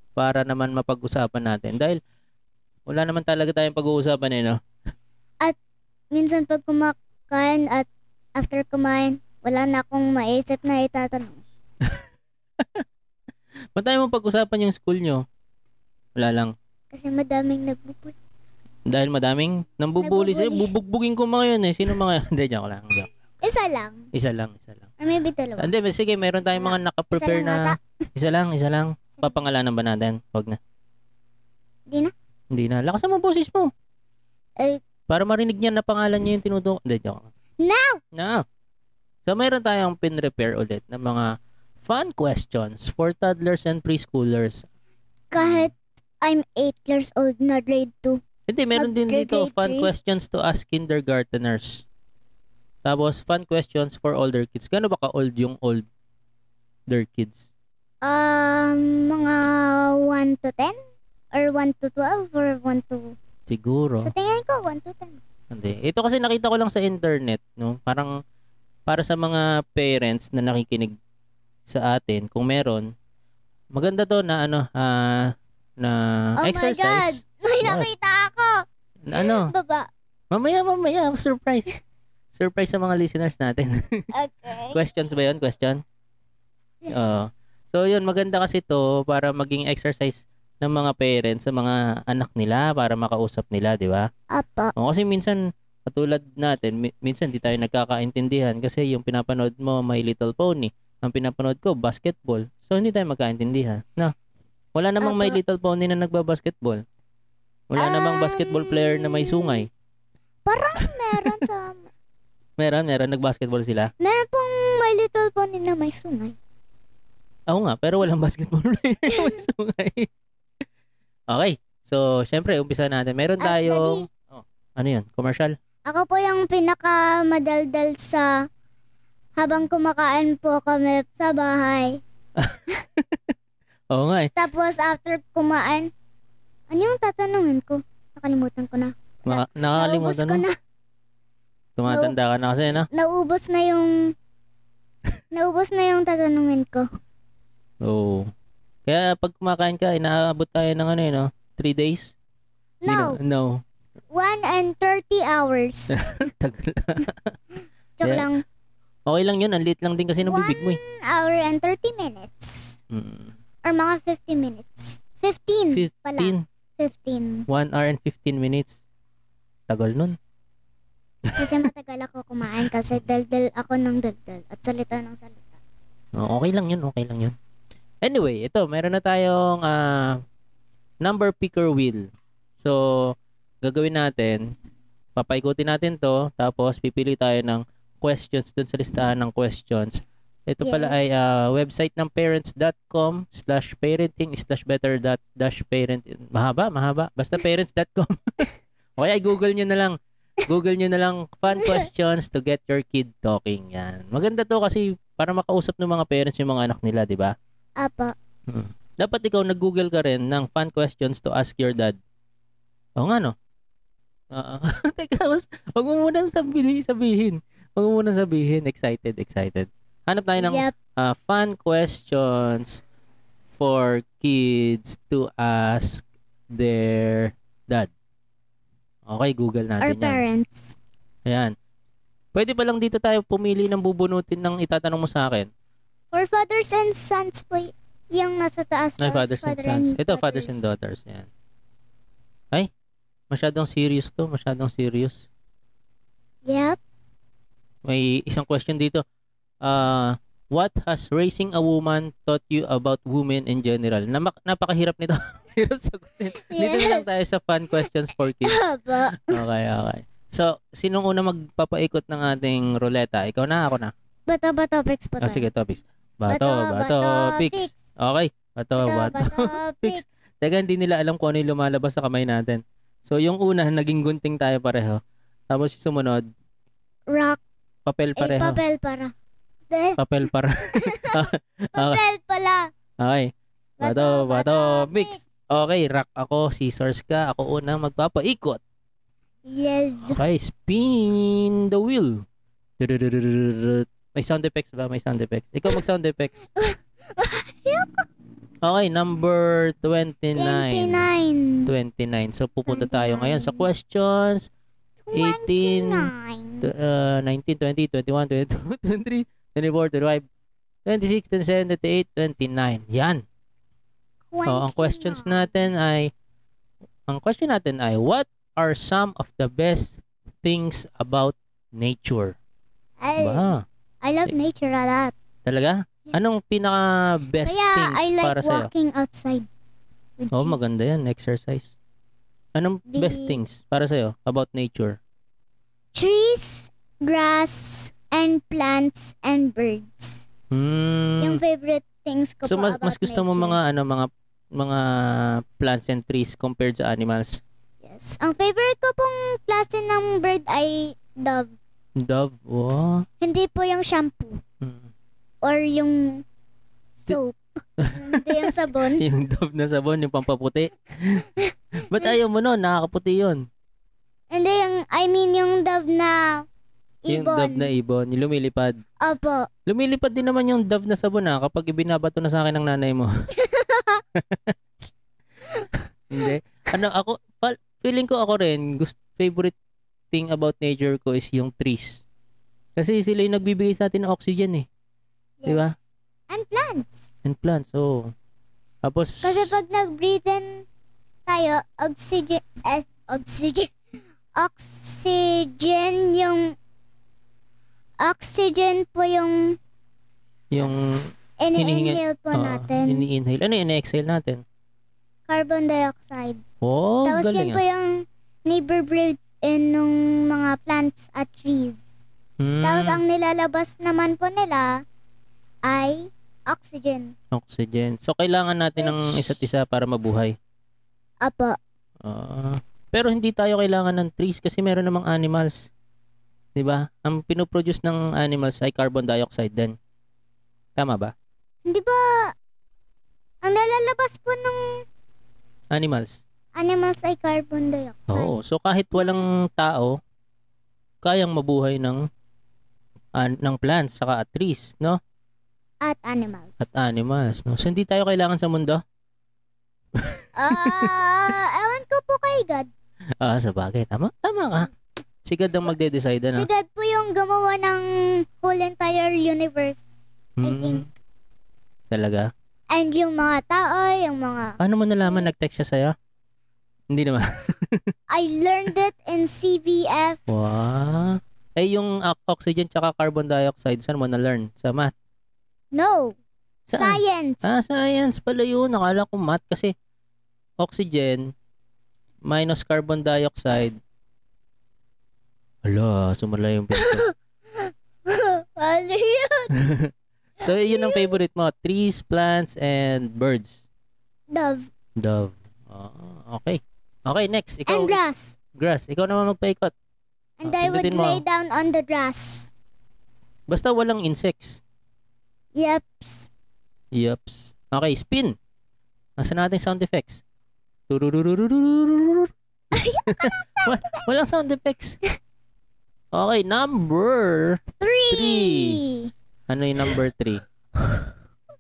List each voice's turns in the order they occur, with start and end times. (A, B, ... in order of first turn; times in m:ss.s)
0:00.2-0:02.0 A
0:02.9-0:04.6 A
0:06.1-0:11.4 B
0:13.8-0:15.2 A
0:16.2-0:16.5 A
0:16.9-0:18.2 B
0:18.9-0:23.1 A
0:20.0-0:20.7 B
0:23.4-0:24.1 B
0:24.1-0:24.8 A
0:25.0-0:25.7 B
0:25.6-0:30.6 A
0:26.4-0:27.8 B
0:32.5-0:33.7 A
0:35.1-0:37.3 A
0:37.6-0:38.0 B
0:38.1-0:38.4 A
0:39.2-0:41.3 A
0:41.8-0:44.6 A
0:45.3-0:48.2 B
0:45.4-0:45.7 A
0:48.5-0:51.8 A
0:48.8-0:49.9 B
0:52.8-0:55.8 A
0:56.9-0:57.5 A
0:58.0-1:00.8 B
1:01.3-1:03.0 B
1:03.5-1:04.1 A
1:04.0-1:05.2 B
1:05.5-1:08.1 A
1:08.9-1:10.9 A
1:11.7-1:12.9 A
1:13.7-1:17.9 A
1:16.4-1:18.6 B
1:19.1-1:19.5 A
1:19.1-1:19.9 B
1:20.3-1:21.8 A
1:22.3-1:24.1 A
1:24.1-1:24.8 B
1:24.7-1:25.8 A
1:26.9-1:34.1 A
1:34.3-1:34.7 B
1:34.8-1:44.1 A
1:44.8-1:46.8 A
1:45.0-1:45.4 B
1:47.7-1:49.7 A
1:47.8-1:49.7 B
1:50.4-1:51.9 B
1:50.8-1:51.4 A
1:52.6-1:53.9 A
1:54.0-1:56.4 B
1:57.5-2:00.1 A
2:01.3-2:05.6 A
2:03.4-2:04.1 B
2:05.9-2:08.3 B
2:09.4-2:12.0 B
2:12.4-2:13.4 A
2:13.9-2:14.3 A
2:14.4-2:15.9 B
2:16.7-2:20.6 B
2:19.3-2:20.4 A
2:21.8-2:22.9 A
2:21.9-2:22.1 B
2:22.9-2:24.1 B
2:25.3-2:26.8 B
2:27.8-2:28.3 A
2:28.9-2:32.1 A
2:32.8-2:33.2 B
2:32.9-2:33.6 A
2:34.1-2:36.0 B
2:35.9-2:37.3 A
2:38.0-2:38.4 B
2:39.1-2:40.8 A
2:40.2-2:42.8 B
2:42.9-2:43.3 A
2:43.6-2:47.4 B
2:45.7-2:46.4 A
2:47.5-2:48.8 A
2:49.7-2:50.2 A
2:51.3-2:51.7 A
2:51.4-2:55.6 B
2:56.2-2:57.4 A
2:58.0-3:00.2 A
3:01.0-3:02.0 A
3:02.6-3:04.5 A
3:05.2-3:27.3 A
3:10.6-3:11.1 B
3:21.6-3:21.9 B
3:27.8-3:28.1 B
3:28.5-3:32.0 A
3:33.0-3:33.4 A
3:34.3-3:42.8 A
3:40.4-3:40.8 B
3:43.6-3:47.9 A
3:49.1-3:50.2 A
3:49.8-3:50.8 B
3:51.2-3:51.5 A
3:52.4-3:55.5 A
3:56.1-4:00.7 B
3:59.0-4:01.3 A
4:03.3-4:05.3 A
4:06.4-4:06.8 B
4:07.8-4:09.0 A
4:09.6-4:23.9 A
4:16.5-4:17.2 B
4:18.4-4:19.4 B
4:24.3-4:25.5 B
4:25.2-4:36.2 A
4:26.3-4:27.8 B
4:28.8-4:30.0 B
4:37.1-4:37.4 B
4:37.9-4:38.6 A
4:38.2-4:39.1 B
4:39.7-4:40.3 B
4:40.0-4:42.0 A
4:40.8-4:41.2 B
4:41.8-4:42.7 B
4:43.0-4:48.6 A
4:43.8-4:45.2 B
4:49.4-4:50.2 B
4:50.1-4:52.2 A
4:52.8-4:56.4 A
4:56.6-4:58.0 B
4:58.6-5:01.1 A
5:00.4-5:01.7 B
5:01.7-5:04.5 A
5:02.7-5:03.7 B
5:05.1-5:06.7 B
5:05.1-5:06.1 A
5:06.6-5:10.2 A
5:10.9-5:13.2 A
5:14.3-5:15.5 B
5:14.5-5:16.1 A
5:17.1-5:22.4 A
5:23.0-5:23.5 B
5:23.2-5:23.6 A
5:24.0-5:25.1 B
5:25.5-5:28.7 A
5:27.5-5:29.5 B
5:30.2-5:30.7 B
5:30.3-5:31.7 A
5:32.6-5:35.0 A
5:32.9-5:33.4 B
5:35.9-5:40.2 B
5:40.5-5:41.4 A
5:41.2-5:43.6 B
5:42.5-5:47.4 A
5:47.8-5:51.5 B
5:52.0-5:53.0 A
5:53.2-5:54.4 B
5:54.6-5:54.9 A
5:55.4-5:56.2 B
5:57.0-5:57.4 B
5:57.8-6:01.3 A
5:57.9-5:59.0 B
6:01.4-6:02.1 B
6:01.8-6:03.4 A
6:04.3-6:06.4 B
6:07.0-6:07.7 B
6:07.1-6:08.8 A
6:09.0-6:09.5 B
6:09.7-6:13.1 A
6:13.4-6:14.0 B
6:14.2-6:14.5 A
6:16.1-6:19.5 A
6:20.1-6:22.0 A
6:22.8-6:24.7 A
6:25.4-6:25.7 B
6:25.5-6:25.7 A
6:26.3-6:27.0 B
6:27.2-6:28.1 A
6:28.8-6:29.5 A
6:29.2-6:30.6 B
6:31.2-6:33.7 B
6:34.4-6:36.5 B
6:38.0-6:39.6 B
6:40.5-6:41.0 A
6:41.4-6:43.0 B
6:41.6-6:44.4 A
6:45.3-6:46.4 B
6:46.6-6:47.6 A
6:47.0-6:51.8 B
6:52.4-6:53.0 A
6:52.6-6:54.7 B
6:55.6-6:57.1 B
6:57.3-7:00.4 A
6:58.8-6:59.3 B
7:01.2-7:01.6 B
7:02.0-7:05.7 A
7:06.6-7:09.8 A
7:10.8-7:11.1 A
7:11.6-7:12.0 B
7:13.4-7:14.6 B
7:15.7-7:16.2 A
7:16.5-7:18.4 B
7:18.1-7:20.0 A
7:19.0-7:19.3 B
7:21.0-7:22.0 A
7:23.2-7:25.0 A
7:25.8-7:26.8 B
7:26.6-7:28.8 A
7:30.0-7:30.9 A
7:30.4-7:32.7 B
7:33.2-7:34.7 A
7:35.2-7:36.5 A
7:36.3-7:39.8 B
7:40.4-7:40.9 A
7:40.4-7:40.8 B
7:41.9-7:42.3 A
7:42.7-7:45.3 B
7:44.6-7:45.9 A
7:46.9-7:47.8 A
7:48.1-7:50.2 B
7:50.3-7:54.9 A
7:55.7-7:56.2 B
7:56.7-7:59.7 A
7:56.8-7:57.5 B
8:00.6-8:01.3 A
8:02.2-8:03.8 A
8:05.6-8:07.0 A
8:06.8-8:09.5 B
8:09.5-8:13.6 A
8:10.4-8:11.1 B
8:14.3-8:14.7 B
8:15.0-8:18.0 A
8:17.7-8:18.4 B
8:18.6-8:19.7 A
8:20.4-8:22.5 B
8:20.5-8:21.2 A
8:23.5-8:24.6 A
8:25.5-8:26.3 B
8:26.9-8:28.4 A
8:29.2-8:30.2 A
8:30.9-8:32.3 A
8:32.7-8:34.0 B
8:33.0-8:35.0 A
8:36.1-8:38.8 A
8:37.8-8:39.1 B
8:39.5-8:40.4 A
8:40.8-8:41.1 B